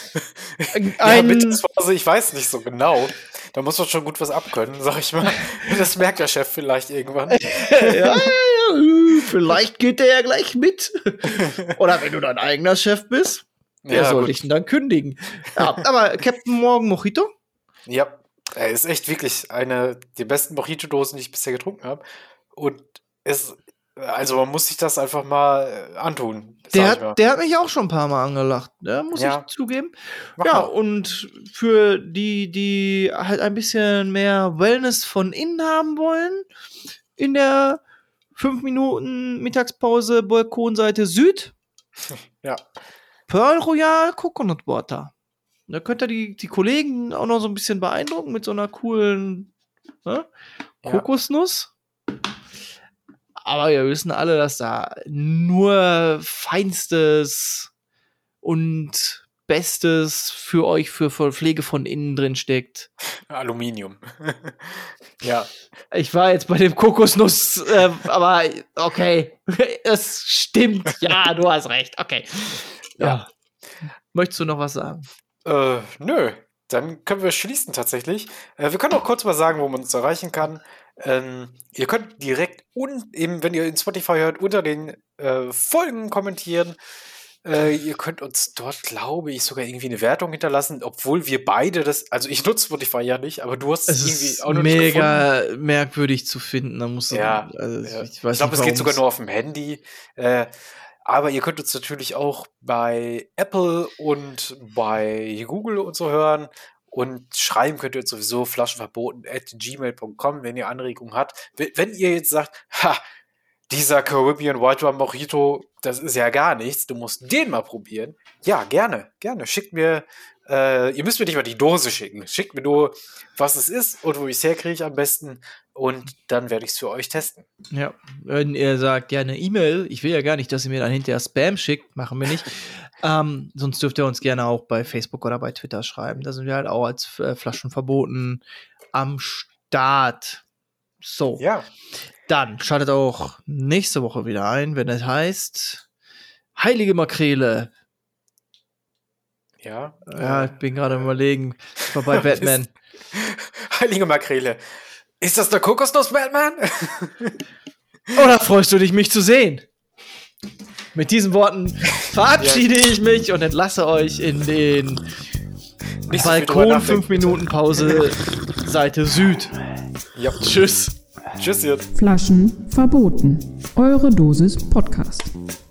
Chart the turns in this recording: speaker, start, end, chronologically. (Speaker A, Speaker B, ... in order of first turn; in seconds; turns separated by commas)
Speaker A: 0.2-8.3, Speaker B: 0.7-1.6, Speaker B: 7.3-17.3, Speaker A: 11.3-11.7, Speaker A: 13.8-14.4, Speaker A: 15.6-15.8, Speaker A: 17.9-27.2, Speaker B: 26.7-36.5, Speaker A: 29.1-29.5, Speaker A: 30.4-30.7, Speaker B: 37.2-37.8, Speaker B: 38.4-41.5, Speaker A: 42.1-42.6, Speaker B: 43.3-45.1, Speaker B: 45.7-49.5, Speaker B: 50.9-51.7, Speaker B: 53.5-57.7, Speaker B: 58.4-62.9, Speaker A: 63.2-65.5, Speaker B: 65.9-73.3, Speaker B: 73.8-75.1, Speaker A: 75.4-86.8, Speaker A: 87.4-95.2, Speaker B: 93.9-99.0, Speaker A: 97.1-113.0, Speaker A: 113.7-127.5, Speaker B: 127.7-140.4, Speaker B: 141.0-141.4, Speaker A: 141.4-141.7, Speaker B: 142.3-145.8, Speaker B: 146.6-147.7, Speaker A: 149.6-150.6, Speaker B: 150.1-152.7, Speaker A: 152.1-152.5, Speaker A: 153.1-154.6, Speaker A: 155.2-157.4, Speaker B: 158.1-159.7, Speaker B: 160.9-165.0, Speaker A: 162.4-162.7, Speaker A: 166.1-168.0, Speaker B: 166.1-169.5, Speaker A: 170.2-170.4, Speaker B: 170.4-170.9, Speaker A: 171.4-171.9, Speaker C: 171.9-175.3